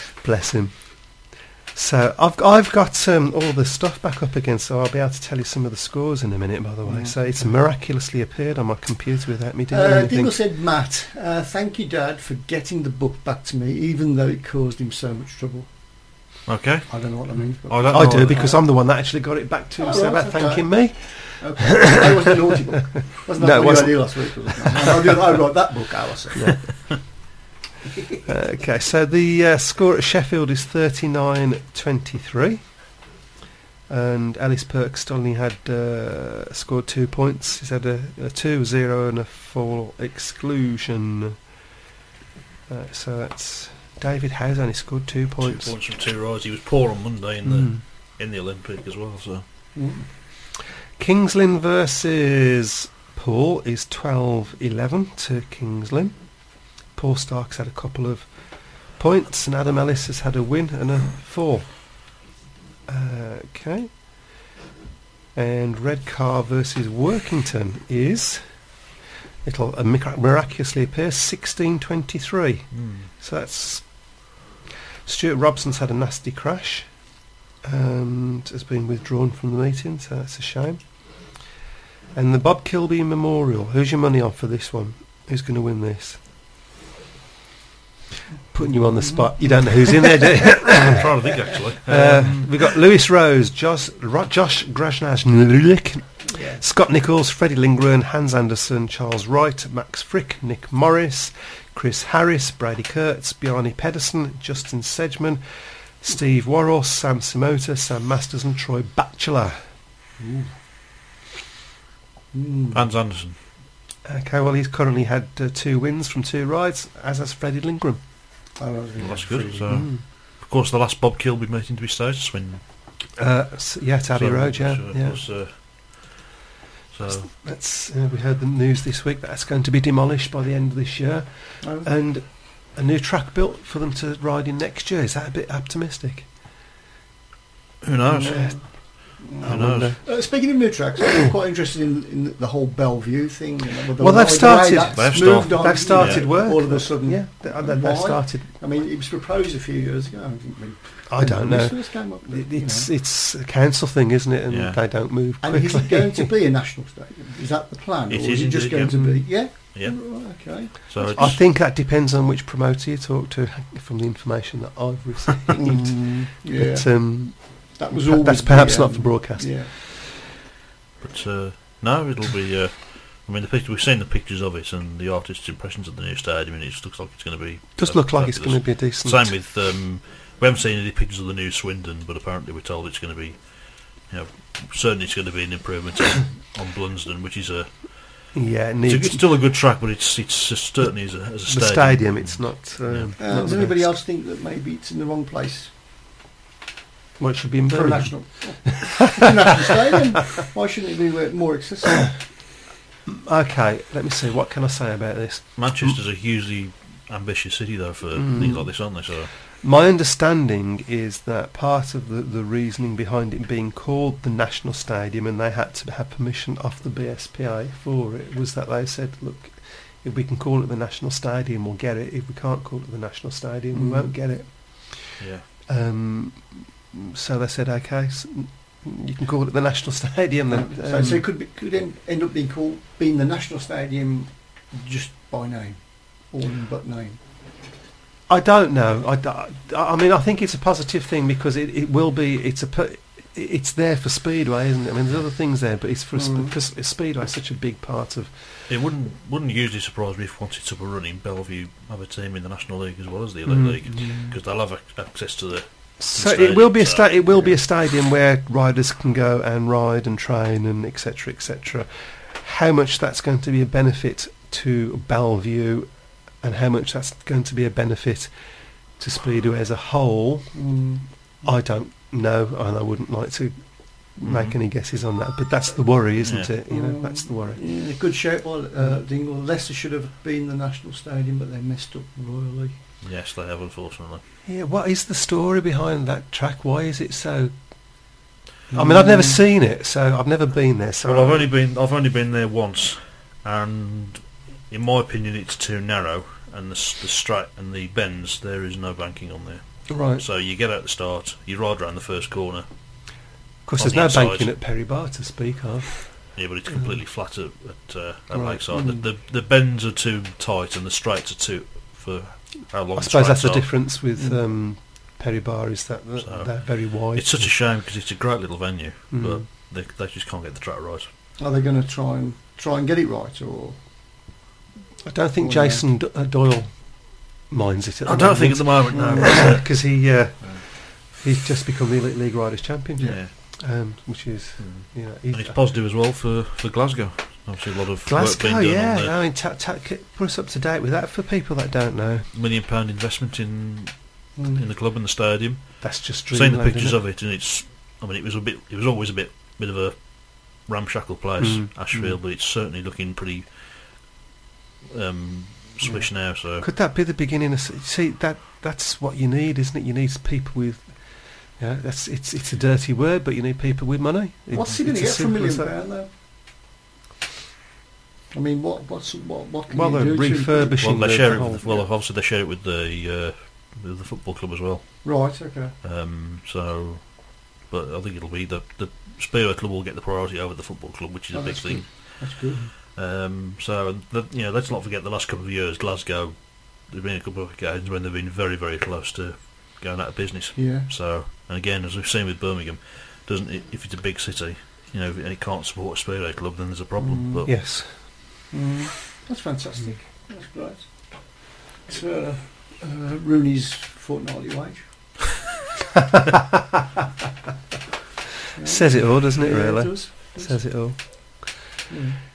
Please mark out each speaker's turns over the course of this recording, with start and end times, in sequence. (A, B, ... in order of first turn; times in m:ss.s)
0:00.2-0:10.4 A
0:06.8-0:07.6 B
0:09.7-0:15.7 B
0:16.4-0:18.6 C
0:16.9-0:18.9 B
0:17.8-0:22.3 A
0:19.8-0:26.6 B
0:22.9-0:24.9 A
0:26.3-0:27.3 A
0:28.3-0:32.9 A
0:33.9-0:41.3 A
0:42.7-0:45.8 A
0:45.4-0:49.4 C
0:47.4-0:47.8 A
0:49.7-0:50.1 B
0:50.9-1:02.2 A
1:02.9-1:04.4 A
1:05.3-1:14.4 A
1:12.7-1:13.1 C
1:15.0-1:21.5 A
1:22.1-1:26.2 A
1:28.5-1:49.7 A
1:28.7-1:30.7 B
1:30.6-1:32.7 C
1:36.3-1:36.6 B
1:50.2-1:50.6 B
1:52.3-1:52.8 B
1:52.7-1:53.4 C
1:54.0-1:58.1 A
1:58.6-1:59.9 B
1:59.0-2:03.1 C
1:59.7-2:00.0 A
2:03.2-2:05.6 A
2:04.1-2:06.2 C
2:06.9-2:07.3 C
2:07.0-2:16.4 A
2:11.6-2:11.9 B
2:17.8-2:18.8 C
2:18.0-2:32.9 B
2:18.2-2:20.8 A
2:19.4-2:20.0 C
2:24.0-2:28.5 A
2:24.9-2:26.5 C
2:31.1-2:36.3 A
2:34.5-2:35.0 C
2:35.4-2:41.4 B
2:38.1-2:41.4 C
2:38.9-2:39.3 A
2:41.1-2:49.8 A
2:45.6-2:49.7 B
2:51.0-3:13.6 C
2:57.8-2:59.4 A
3:08.3-3:09.3 A
3:11.2-3:14.0 A
3:13.2-3:15.8 B
3:17.2-3:18.8 A
3:17.7-3:22.2 B
3:23.1-3:26.0 A
3:25.6-3:29.3 C
3:28.2-3:51.3 A
3:43.7-3:44.1 B
3:45.2-3:45.5 C
3:50.5-3:57.2 B
3:58.3-4:08.7 A
4:06.1-4:06.5 B
4:08.7-4:17.6 C
4:13.5-4:14.1 A
4:13.8-4:14.4 B
4:16.0-4:37.8 A
4:30.5-4:31.4 B
4:34.2-4:34.6 C
4:36.2-4:36.5 C
4:36.3-4:42.8 B
4:38.8-4:39.0 A
4:43.0-4:44.2 C
4:44.4-4:48.2 A
4:48.7-4:49.4 B
4:48.7-4:51.5 A
4:51.0-5:04.6 C
4:59.9-5:00.2 A
5:03.6-5:07.0 A
5:06.3-5:13.9 C
5:08.3-5:09.0 B
5:12.9-5:17.6 A
5:16.2-5:21.1 C
5:19.1-5:19.4 A
5:21.4-5:24.3 B
5:25.0-5:35.6 A
5:25.4-5:25.8 B
5:28.0-5:30.6 C
5:28.9-5:29.2 B
5:33.0-5:33.3 C
5:34.6-5:39.1 C
5:38.0-5:42.3 A
5:42.3-5:54.2 C
5:44.4-5:44.6 B
5:45.8-5:47.0 A
5:51.4-5:52.1 A
5:54.9-5:56.7 C
5:55.8-5:56.1 B
5:56.2-6:05.8 A
6:04.5-6:06.1 B
6:08.3-6:10.9 B
6:09.7-6:11.8 A
6:10.7-6:37.8 C
6:15.0-6:15.8 B
6:21.3-6:22.7 B
6:30.6-6:30.9 B
6:37.0-6:37.8 B
6:37.4-6:38.3 A
6:38.5-6:45.2 B
6:48.5-6:51.1 B
6:48.6-6:51.6 A
6:51.9-6:52.2 B